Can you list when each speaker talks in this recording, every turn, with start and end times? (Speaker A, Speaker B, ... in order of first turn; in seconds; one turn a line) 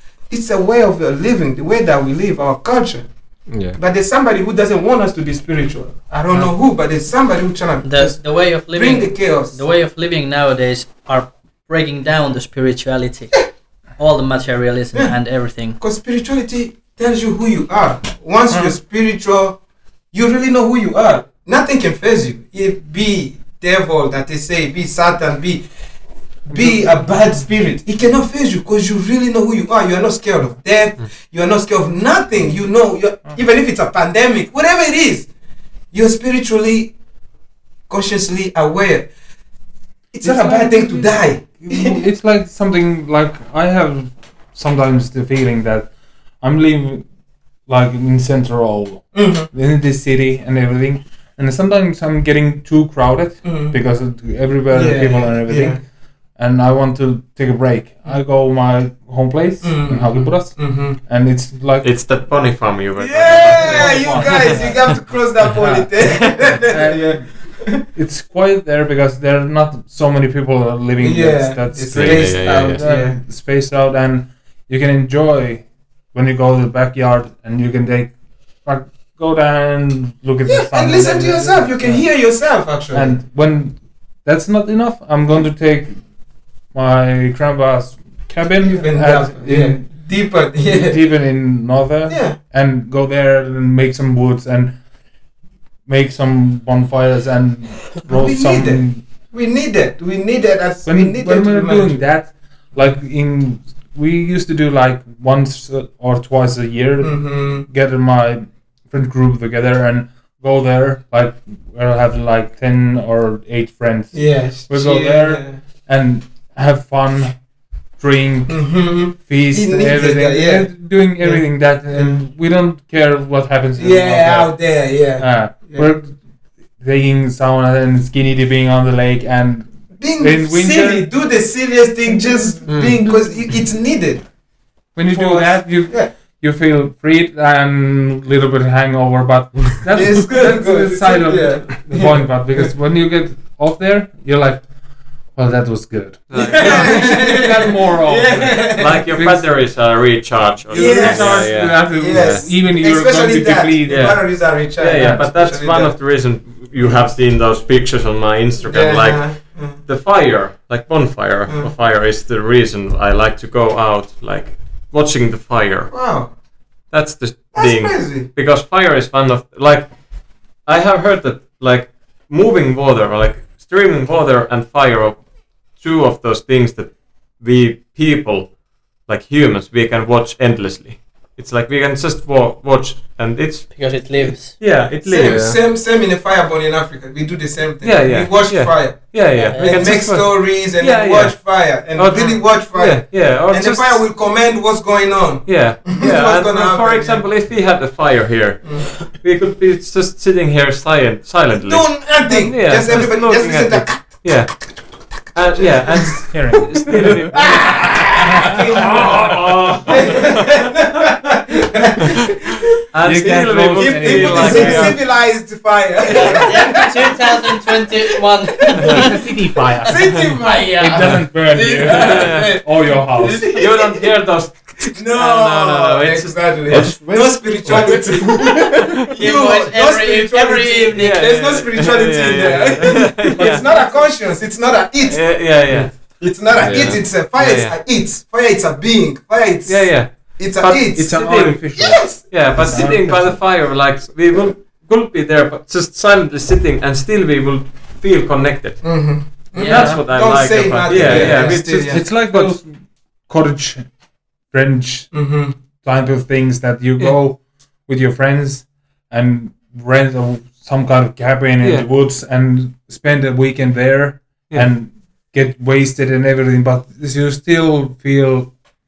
Speaker A: 0.3-3.1
Speaker B: 3.5-3.8
Speaker A: 3.8-9.6
Speaker C: 7.8-15.8
Speaker A: 15.8-19.6
Speaker D: 18.5-18.8
Speaker A: 20.1-25.7
Speaker A: 26.5-35.3
Speaker D: 26.5-26.8
Speaker A: 35.9-36.9
Speaker A: 37.9-39.1
Speaker A: 40.1-42.0
Speaker D: 40.2-47.1
Speaker D: 47.7-55.8
Speaker A: 49.1-49.5
Speaker A: 53.4-53.8
Speaker A: 54.7-55.8
Speaker D: 56.4-61.9
Speaker A: 59.6-61.0
Speaker E: 61.8-64.8
Speaker A: 63.0-67.8
Speaker D: 63.4-64.9
Speaker D: 65.5-65.9
Speaker D: 66.6-82.3
Speaker A: 71.0-73.2
Speaker E: 71.9-72.8
Speaker A: 80.5-83.2
Speaker D: 82.9-86.0
Speaker D: 86.7-90.0
Speaker A: 88.6-91.0
Speaker D: 90.7-94.8
Speaker A: 92.1-92.4
Speaker D: 95.9-99.0
Speaker A: 98.0-102.0
Speaker D: 100.8-117.5
Speaker A: 107.0-107.7
Speaker A: 114.1-115.6
Speaker D: 118.0-126.2
Speaker A: 118.5-122.2
Speaker A: 123.8-125.9
Speaker D: 126.8-131.1
Speaker A: 130.0-134.3
Speaker E: 132.7-133.0
Speaker D: 134.9-144.6
Speaker A: 135.1-136.1
Speaker A: 139.9-142.7
Speaker D: 145.3-149.5
Speaker E: 146.3-147.1
Speaker A: 146.3-149.2
Speaker E: 148.8-152.5
Speaker D: 150.7-154.2
Speaker A: 150.7-156.0
Speaker E: 153.9-166.1
Speaker D: 155.0-155.2
Speaker A: 158.7-159.8
Speaker A: 165.9-166.3
Speaker E: 166.9-185.4
Speaker A: 167.5-168.3
Speaker C: 183.7-184.6
Speaker A: 185.0-197.2
Speaker B: 185.2-185.6
Speaker E: 187.8-194.1
Speaker C: 189.4-189.9
Speaker E: 195.5-210.7
Speaker A: 198.6-199.1
Speaker A: 201.6-212.7
Speaker D: 206.3-210.3
Speaker E: 212.9-215.0
Speaker D: 213.0-215.0
Speaker A: 213.2-217.9
Speaker C: 216.1-219.1
Speaker D: 218.9-220.2
Speaker A: 219.8-224.1
Speaker E: 219.9-220.4
Speaker D: 220.8-223.4
Speaker E: 221.8-222.6
Speaker E: 223.5-226.9
Speaker A: 224.8-243.0
Speaker B: 226.7-229.0
Speaker E: 227.7-228.1
Speaker C: 229.1-231.2
Speaker E: 230.9-233.9
Speaker D: 233.2-234.1
Speaker E: 235.0-235.9
Speaker B: 236.6-237.1
Speaker E: 237.1-237.8
Speaker E: 239.7-252.6
Speaker D: 240.9-243.5
Speaker A: 248.8-252.1
Speaker C: 249.6-249.9
Speaker D: 249.8-250.0
Speaker D: 250.9-268.6
Speaker A: 255.1-255.6
Speaker E: 261.6-261.9